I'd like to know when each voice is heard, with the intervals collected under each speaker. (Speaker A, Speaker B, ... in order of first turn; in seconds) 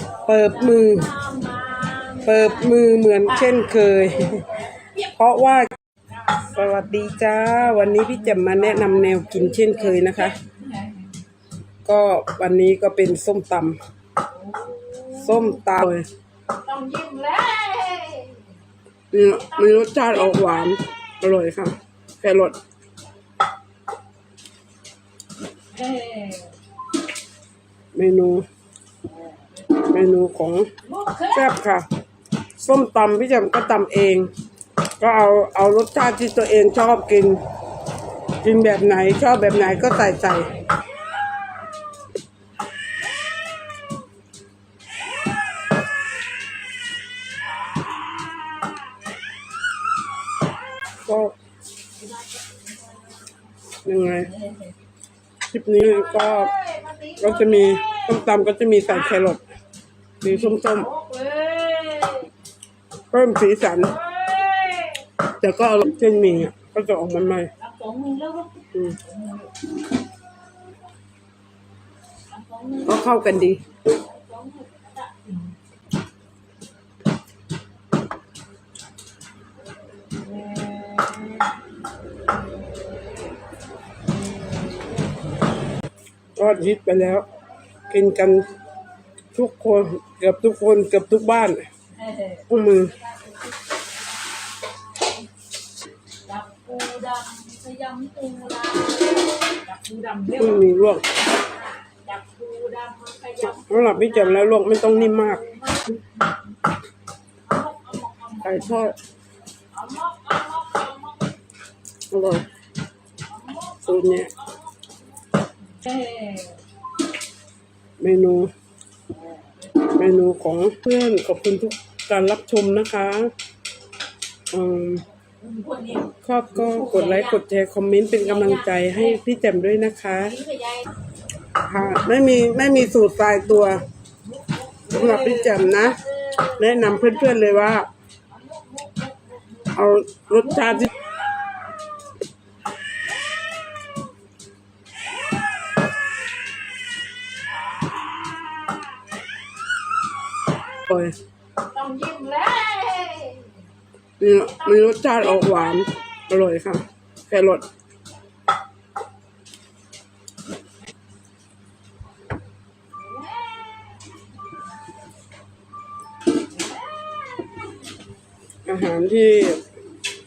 Speaker A: 0.3-1.1, 2.2-5.7, 6.4-10.4, 11.8-13.8, 15.2-16.1, 19.1-22.6, 27.9-28.5, 29.9-30.7, 31.3-31.9, 32.6-34.3, 35.0-37.4, 38.4-40.5, 51.1-51.4, 53.9-54.3, 55.5-56.5, 57.2-59.4, 60.2-60.9, 63.1-63.9, 65.4-67.5, 72.8-73.6, 86.4-87.3, 87.9-88.5, 89.3-91.7, 92.5-92.9, 100.4-101.0, 103.4-105.4, 108.4-109.0, 112.1-112.5, 113.9-114.3, 118.0-118.5, 120.0-123.3, 124.5-125.0, 126.2-130.4, 131.7-133.8, 134.9-136.0, 136.6-137.9, 139.7-140.9, 154.2-157.7, 168.7-169.6
Speaker B: 0.7-2.6, 6.2-11.2, 14.3-15.6, 16.6-18.4, 19.4-20.5, 25.7-26.5, 30.8-31.5, 52.0-53.2, 54.1-54.8, 55.8-59.3, 60.2-62.3, 63.8-65.1, 67.6-69.7, 72.3-75.5, 80.3-81.4, 91.9-93.6, 96.3-106.2, 107.5-108.9, 109.7-111.3, 113.3-114.9, 115.7-116.6, 125.4-127.4, 128.2-129.2, 130.2-130.9, 134.2-137.7, 138.3-139.8, 140.4-141.0, 151.7-153.5, 154.4-155.4, 163.0-164.2